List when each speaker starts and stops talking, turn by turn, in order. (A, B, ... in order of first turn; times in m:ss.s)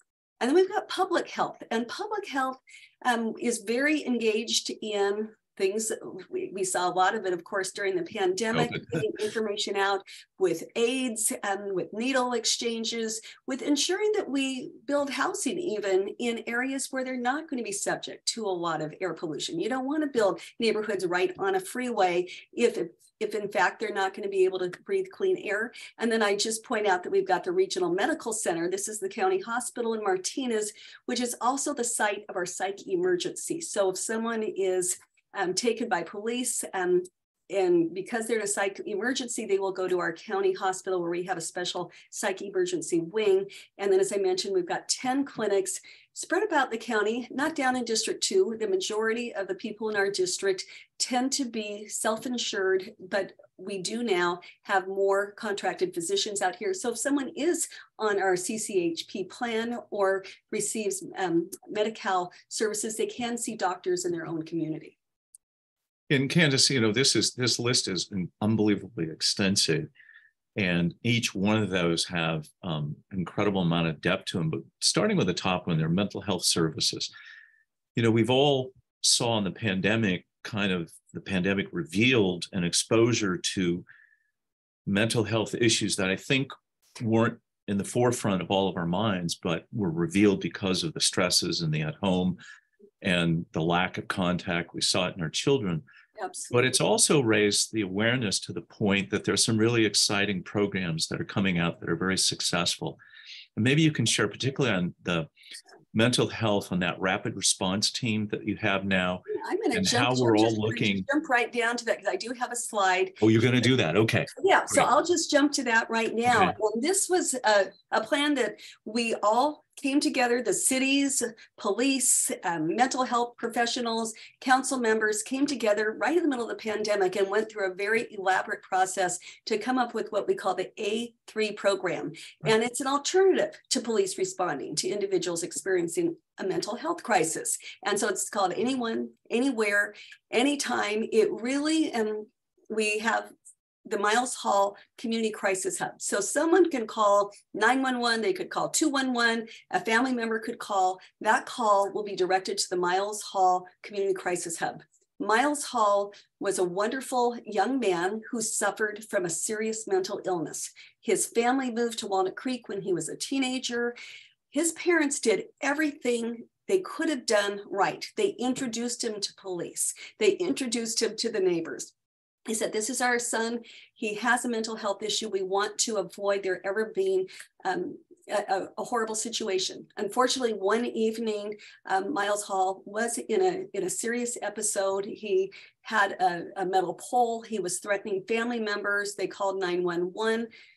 0:00.4-1:05.0 A
0:08.5-0:08.8 B
1:06.1-1:09.9 B
1:10.6-1:17.1 B
1:18.0-1:23.8 B
1:24.8-1:32.4 B
1:33.0-1:35.8 B
1:36.2-1:36.8 A
1:36.5-1:43.0 B
1:43.6-1:45.3 B
1:45.9-1:49.2 B
1:49.3-1:53.2 A
1:49.7-1:51.0 B
1:53.2-1:54.8 B
1:54.4-2:23.3 A
1:56.3-1:56.5 B
2:23.8-2:43.9 A
2:44.5-2:51.9 A
2:52.5-3:10.5 A